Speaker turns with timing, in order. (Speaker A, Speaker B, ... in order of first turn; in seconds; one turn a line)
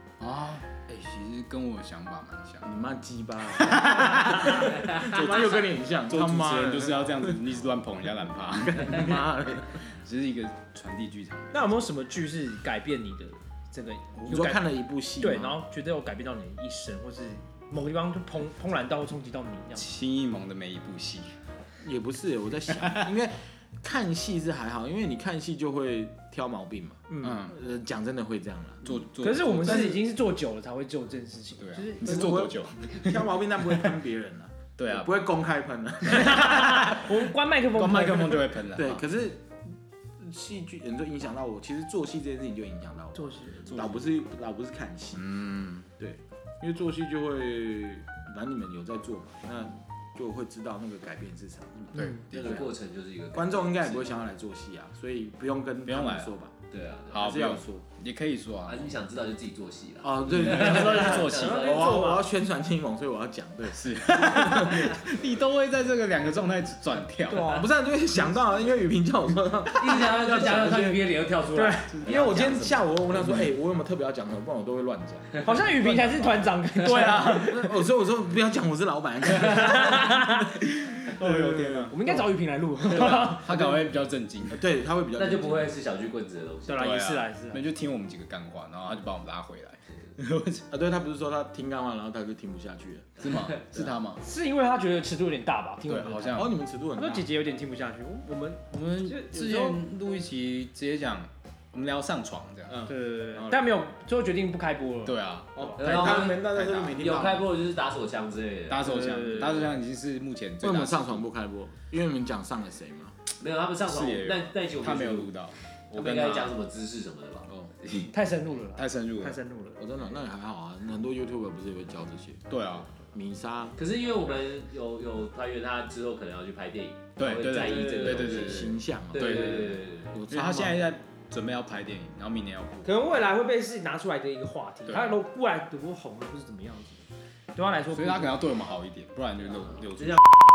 Speaker A: 0.2-2.7
Speaker B: 2.6-7.4
Speaker A: 3.5-5.5
Speaker A: 6.1-11.8
Speaker B: 8.6-9.8
Speaker C: 11.5-19.9
Speaker B: 14.3-15.6
Speaker A: 19.8-21.3
Speaker B: 21.8-28.9
Speaker A: 22.8-23.1
Speaker C: 27.1-27.4
Speaker A: 27.2-27.6
Speaker A: 28.8-30.0
Speaker C: 29.2-32.5
Speaker A: 31.6-34.0
Speaker B: 32.0-36.8
Speaker A: 34.8-35.2
Speaker C: 36.1-38.6
Speaker A: 36.2-37.1
Speaker A: 37.7-39.0
Speaker B: 38.7-39.5
Speaker B: 40.2-45.3
Speaker C: 43.1-43.8
Speaker A: 43.7-44.1
Speaker A: 45.2-45.9
Speaker B: 46.0-52.7
Speaker A: 51.8-52.6
Speaker D: 52.3-54.2
Speaker B: 53.3-56.5
Speaker A: 55.8-56.3
Speaker D: 56.7-57.3
Speaker A: 57.1-58.9
Speaker B: 57.1-57.8
Speaker D: 58.7-62.0
Speaker B: 60.0-65.0
Speaker A: 60.2-61.7
Speaker C: 60.9-62.3
Speaker A: 63.7-67.6
Speaker C: 67.3-67.7
Speaker B: 67.3-71.0
Speaker D: 69.8-72.7
Speaker C: 71.5-72.6
Speaker B: 72.0-80.4
Speaker C: 75.4-77.7
Speaker A: 76.7-77.6
Speaker C: 79.4-80.5
Speaker A: 80.8-82.0
Speaker B: 81.1-82.2
Speaker C: 81.9-83.7
Speaker A: 82.8-84.7
Speaker B: 84.5-85.8
Speaker D: 85.2-87.0
Speaker C: 86.7-87.6
Speaker A: 86.8-90.7
Speaker B: 90.7-93.2
Speaker A: 93.2-94.2
Speaker C: 94.2-99.8
Speaker A: 95.8-96.5
Speaker B: 96.3-97.3
Speaker A: 98.7-102.8
Speaker B: 102.7-103.7
Speaker C: 102.9-105.7
Speaker A: 105.0-107.0
Speaker B: 105.5-107.5
Speaker D: 105.8-109.2
Speaker A: 108.7-111.2
Speaker C: 108.9-109.7
Speaker B: 110.6-113.2
Speaker D: 113.4-115.3
Speaker A: 113.9-116.5
Speaker D: 115.9-117.5
Speaker A: 117.8-118.1
Speaker C: 118.1-119.8
Speaker A: 118.7-119.4
Speaker B: 119.8-122.5
Speaker A: 122.5-122.9
Speaker B: 123.1-123.8
Speaker D: 123.8-130.1
Speaker A: 127.2-132.9
Speaker B: 128.0-130.9
Speaker C: 132.8-138.4
Speaker A: 134.9-135.2
Speaker A: 137.9-140.2